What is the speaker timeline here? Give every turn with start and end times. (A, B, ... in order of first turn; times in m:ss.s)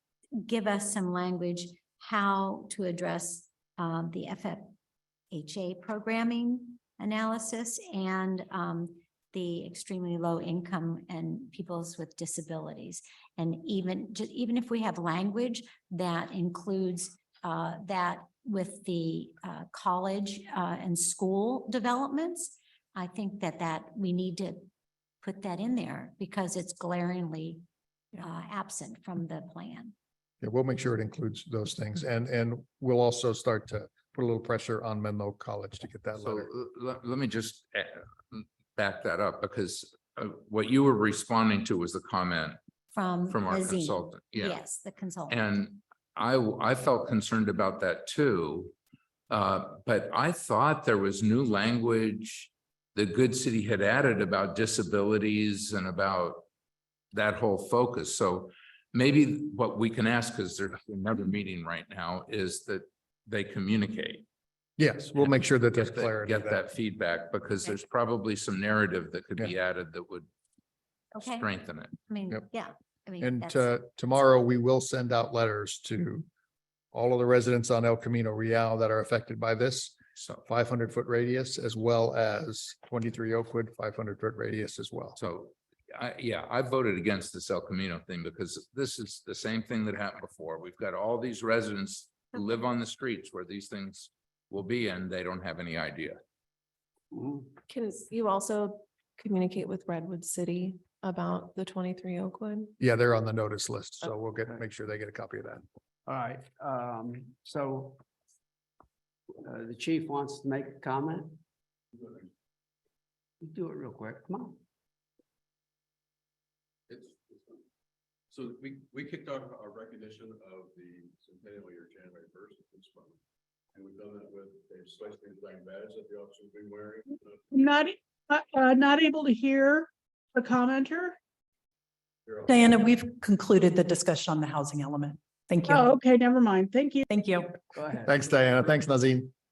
0:00.4-0:04.7 A
0:05.3-0:24.7 A
0:25.2-0:27.6 A
0:28.2-0:29.9 A
0:30.4-0:36.5 B
0:36.1-0:42.6 C
0:42.9-0:45.5 A
0:43.3-0:44.6 C
0:45.3-0:48.7 C
0:49.3-0:56.4 C
0:57.1-1:04.2 C
1:04.8-1:06.6 B
1:05.2-1:10.3 C
1:11.1-1:11.5 A
1:11.2-1:11.9 C
1:12.1-1:13.7 A
1:13.2-1:16.3 B
1:16.9-1:25.2 B
1:20.2-1:20.4 C
1:25.2-1:36.2 C
1:37.1-1:37.6 D
1:37.7-1:42.7 E
1:42.8-1:45.6 B
1:46.1-1:48.0 D
1:49.4-1:51.4 D
1:53.4-1:54.6 D
1:56.9-1:57.6 F
1:58.3-2:03.2 F
2:03.7-2:07.4 F
2:07.1-2:11.2 G
2:12.3-2:12.8 F
2:12.5-2:15.9 H
2:15.7-2:17.0 G
2:17.1-2:17.6 H
2:17.7-2:18.3 D
2:18.0-2:19.3 B